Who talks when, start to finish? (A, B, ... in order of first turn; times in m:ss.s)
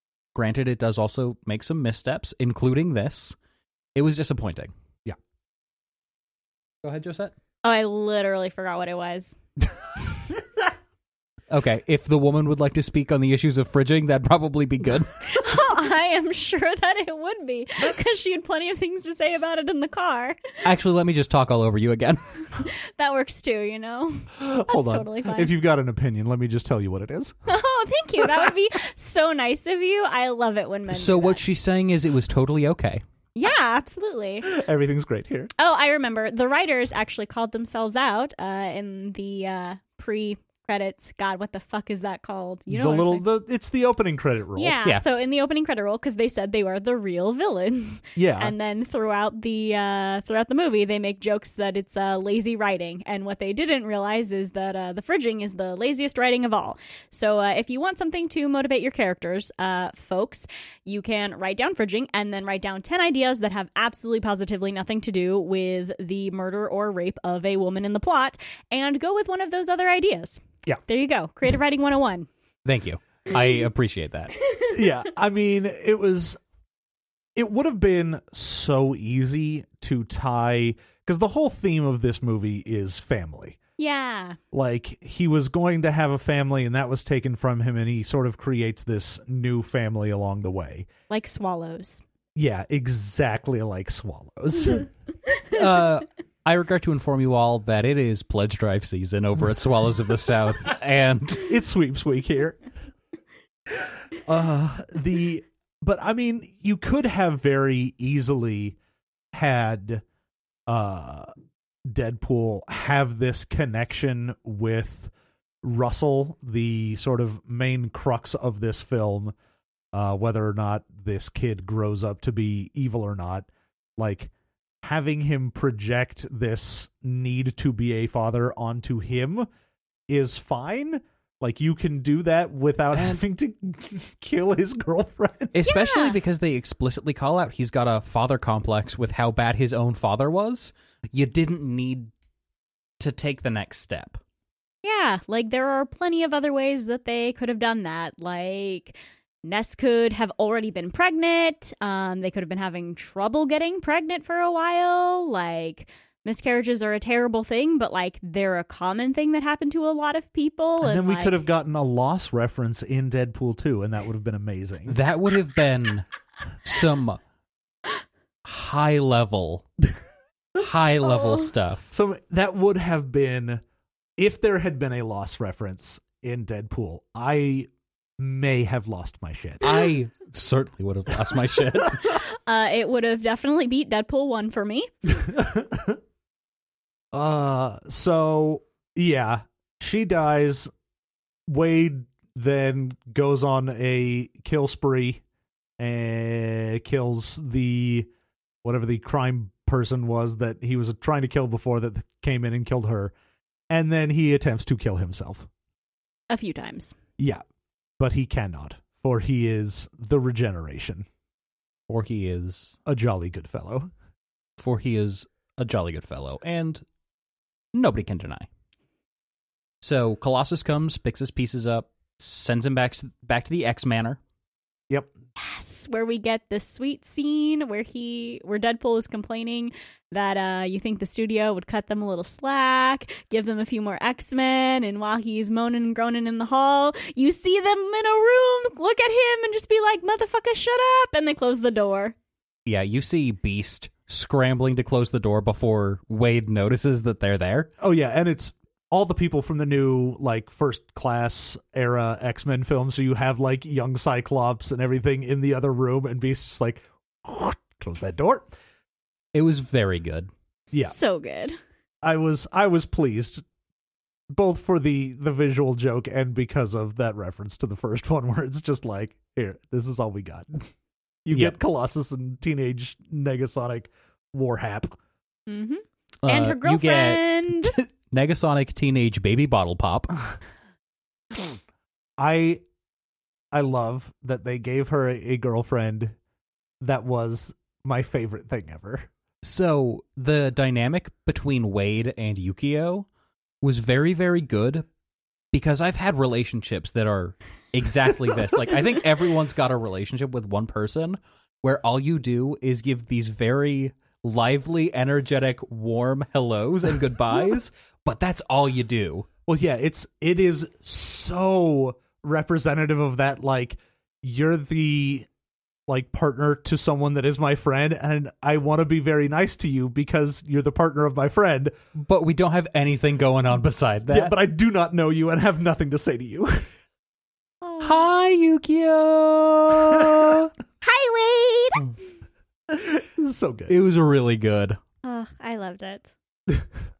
0:00.4-0:03.4 A
0:04.0-0:04.7 A
0:06.8-0:07.3 A
0:07.6-0:09.4 B
0:11.5-0:15.1 A
0:15.3-0:20.6 B
0:20.6-0:22.2 A
0:22.6-0:25.5 B
0:24.4-0:27.4 C
0:27.5-0:31.4 B
0:30.9-0:33.0 A
0:33.4-0:34.5 B
0:34.4-0:35.5 C
0:35.6-0:43.2 B
0:42.7-0:44.8 C
0:44.6-1:12.3 B
0:48.2-0:48.5 C
1:12.6-1:14.3 A
1:14.5-1:14.7 B
1:14.7-1:16.4 C
1:17.4-1:23.6 C
1:23.8-1:24.4 B
1:24.5-1:30.9 C
1:31.1-1:32.0 B
1:32.4-1:34.9 C
1:35.5-1:41.5 A
1:41.4-1:42.6 C
1:44.2-1:48.8 C
1:49.3-1:50.0 C
1:50.7-1:51.3 C
1:51.9-1:55.1 C
1:55.6-1:59.4 C
1:59.9-2:04.3 C
2:04.8-2:09.5 C
2:10.1-2:15.6 C
2:12.9-2:13.2 A
2:15.5-2:22.1 A
2:15.6-2:16.2 B
2:23.0-2:24.2 A
2:24.8-2:41.4 B
2:40.8-2:45.0 C
2:44.9-2:46.1 A
2:46.6-2:47.2 A
2:48.4-2:49.7 A
2:50.6-2:51.9 A
2:51.9-2:53.6 C
2:54.2-2:57.7 C
2:58.2-2:59.8 C
2:59.6-3:02.1 A
3:02.0-3:04.9 B
3:05.2-3:06.0 C
3:07.1-3:10.7 C
3:11.5-3:15.2 C
3:15.8-3:18.1 C
3:18.6-3:23.1 C
3:23.7-3:25.5 C
3:26.3-3:27.0 B
3:28.0-3:31.1 C
3:31.9-3:32.8 A
3:32.9-3:33.9 C
3:34.6-3:36.8 A
3:37.7-3:38.5 A
3:39.8-3:44.2 A
3:45.4-4:02.1 B
4:02.6-4:07.7 A
4:07.8-4:18.5 C
4:19.3-4:20.3 A
4:20.7-4:21.6 B
4:22.0-4:23.4 C
4:24.3-4:30.7 C
4:31.2-4:35.0 C
4:35.5-4:37.8 B
4:36.2-4:40.1 A
4:42.2-4:42.6 C
4:43.5-4:46.2 C
4:46.8-4:49.1 C
4:49.4-4:53.1 A
4:53.6-4:54.9 A
4:55.5-5:09.3 A
5:09.5-5:15.3 C
5:15.9-5:21.8 C
5:22.0-5:24.3 A
5:24.1-5:26.7 C
5:27.6-5:28.0 B
5:27.8-5:30.5 A
5:30.8-5:31.9 B
5:32.7-5:33.8 C
5:33.7-5:34.8 A
5:35.0-5:36.1 B